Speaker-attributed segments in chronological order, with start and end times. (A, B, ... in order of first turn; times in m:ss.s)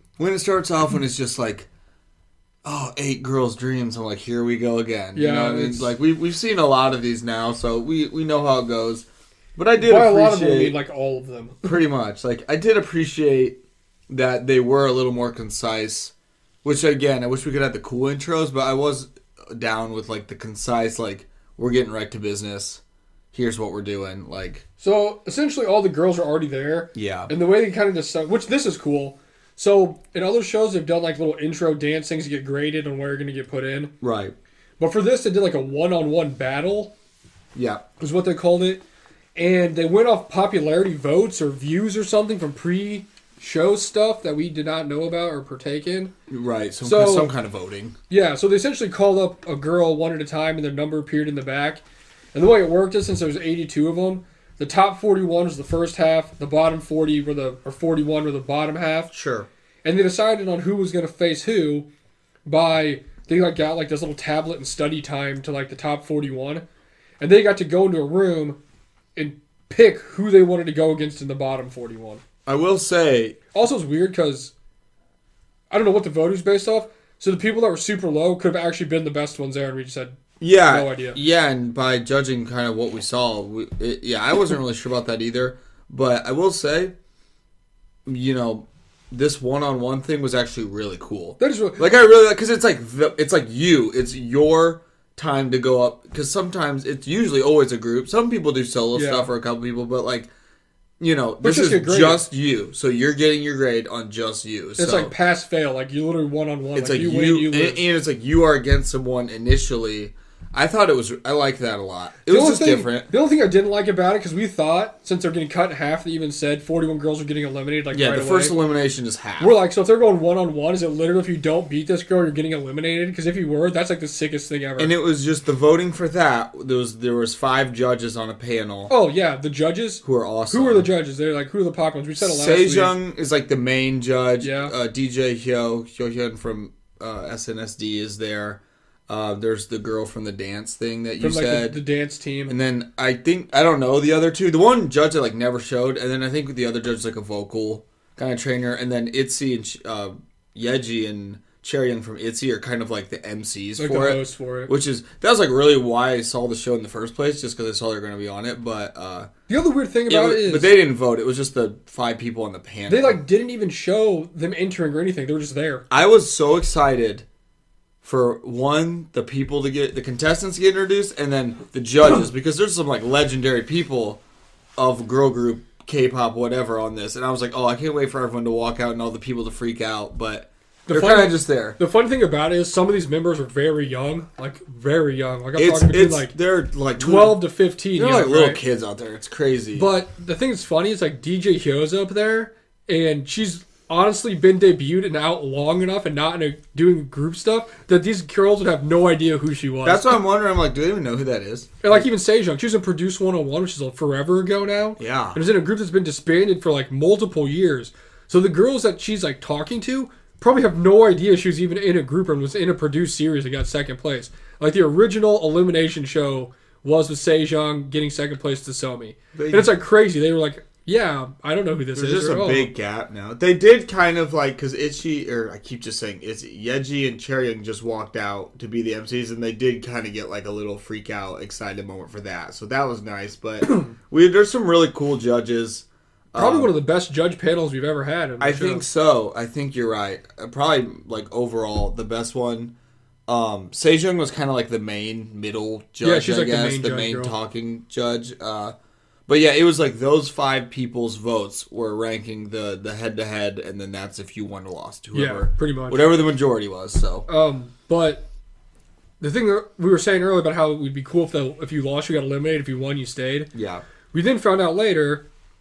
0:00.2-0:01.7 A
0:02.6-0:10.8 A
0:05.2-0:05.9 B
0:09.8-0:11.7 B
0:11.6-0:13.6 A
0:14.1-0:16.1 A
0:16.6-0:22.8 A
0:23.3-0:24.6 A
0:24.8-0:33.9 B
0:26.9-0:27.3 A
0:34.0-0:34.3 A
0:34.8-0:36.9 B
0:37.6-0:37.8 A
0:38.0-0:38.8 B
0:39.4-0:46.1 B
0:46.3-0:48.0 A
0:46.8-0:47.3 B
0:48.1-0:51.8 B
0:52.3-0:59.1 B
0:59.1-0:59.5 A
0:59.8-1:01.9 B
1:02.5-1:06.6 B
1:07.2-1:08.6 B
1:09.2-1:12.2 B
1:12.5-1:13.4 A
1:13.5-1:14.5 B
1:15.7-1:21.2 B
1:20.4-1:26.9 A
1:28.1-1:40.3 A
1:31.4-1:31.9 B
1:38.9-1:39.3 B
1:41.0-1:45.1 A
1:41.4-1:42.2 B
1:44.8-1:47.8 B
1:46.7-1:53.1 A
1:52.3-1:58.6 B
1:57.9-1:59.6 A
1:59.4-2:04.9 B
2:04.8-2:08.9 A
2:08.9-2:13.0 B
2:10.0-2:10.9 A
2:12.2-2:21.8 A
2:14.4-2:14.7 B
2:21.2-2:22.5 B
2:22.5-2:39.3 A
2:33.8-2:34.7 B
2:39.5-2:40.8 B
2:40.1-2:43.2 A
2:42.9-2:45.8 B
2:45.9-2:47.2 A
2:48.0-2:54.2 A
2:54.8-3:01.8 A
3:00.9-3:06.3 B
3:05.6-3:07.4 A
3:07.0-3:08.6 B
3:08.0-3:09.9 A
3:09.8-3:20.2 B
3:19.8-3:22.1 A
3:21.8-3:42.7 B
3:25.0-3:25.4 A
3:39.3-3:39.7 A
3:42.0-3:56.7 A
3:53.7-3:53.9 B
3:56.4-3:58.8 B
3:58.4-4:02.7 A
4:03.3-4:08.8 A
4:06.0-4:07.4 B
4:09.3-4:17.3 A
4:15.1-4:16.1 B
4:17.3-4:18.3 B
4:19.2-4:23.5 B
4:23.5-4:23.8 A
4:24.1-4:25.2 B